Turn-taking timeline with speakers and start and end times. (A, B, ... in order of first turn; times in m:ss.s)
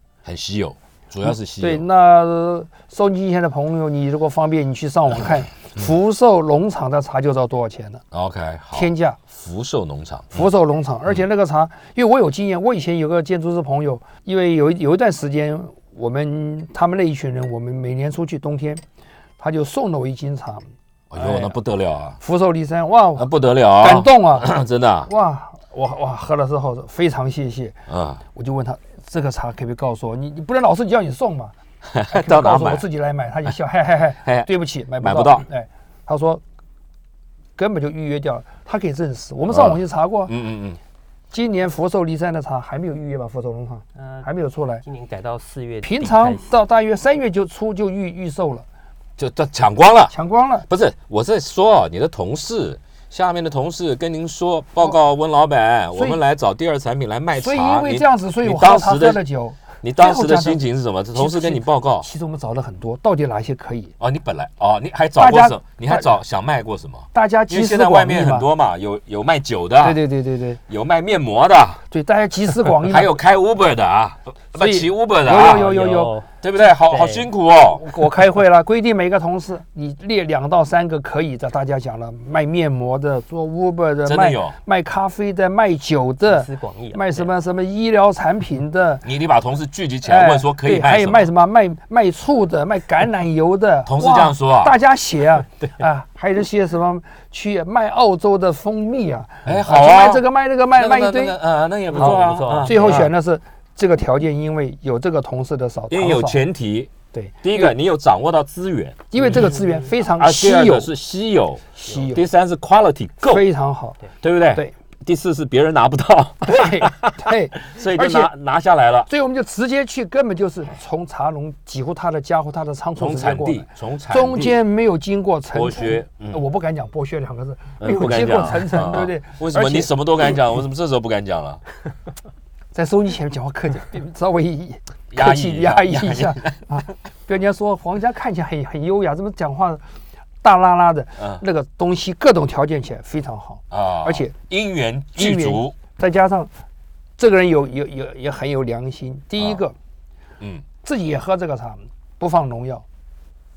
0:00.2-0:01.8 A
0:01.2-0:08.0 B
0:08.1-0:10.5 A
0:08.7-0:09.2 B
0:10.3-0:18.8 B
0:19.4-0:20.6 B
0:21.1-0:22.2 A
0:21.2-0:21.6 B
0:22.2-0:27.8 B
0:23.2-0:25.1 A
0:27.9-0:28.2 A
0:28.3-0:31.5 B
0:31.8-0:32.8 A
0:32.1-0:36.4 B
0:34.2-0:35.4 A
0:37.6-0:40.3 B
0:39.5-0:40.8 A
0:41.3-0:44.8 B
0:44.0-0:44.3 C
0:44.8-0:46.4 C
0:45.8-0:48.6 B
0:49.2-0:50.1 A
0:50.1-0:50.7 B
0:50.7-0:59.2 A
0:57.3-1:00.6 B
0:59.8-1:02.1 A
1:01.1-1:03.9 B
1:04.0-1:10.0 A
1:05.2-1:06.1 B
1:07.1-1:08.5 B
1:09.8-1:10.6 B
1:10.7-1:11.8 A
1:11.9-1:13.1 B
1:12.7-1:15.7 A
1:14.6-1:16.1 B
1:15.3-1:16.3 C
1:16.4-1:17.8 A
1:16.9-1:17.3 C
1:17.7-1:29.0 B
1:24.0-1:24.6 A
1:26.2-1:27.3 C
1:29.0-1:31.3 A
1:30.0-1:41.4 B
1:33.8-1:34.8 A
1:39.4-1:43.1 A
1:41.9-1:43.1 C
1:41.9-1:46.4 B
1:45.9-1:46.9 A
1:47.1-1:47.7 B
1:47.4-1:53.5 A
1:49.1-1:50.9 B
1:51.8-1:52.2 B
1:53.2-1:54.0 B
1:54.2-1:59.1 A
1:56.4-1:58.3 B
1:59.1-2:09.9 B
2:03.0-2:04.6 A
2:05.5-2:06.4 A
2:07.8-2:11.6 A
2:12.7-2:19.8 B
2:15.1-2:16.6 A
2:20.4-2:24.3 B
2:21.2-2:21.4 A
2:23.7-2:25.8 A
2:25.1-2:26.5 B
2:27.2-2:29.7 B
2:30.4-2:30.6 A
2:30.8-2:32.8 B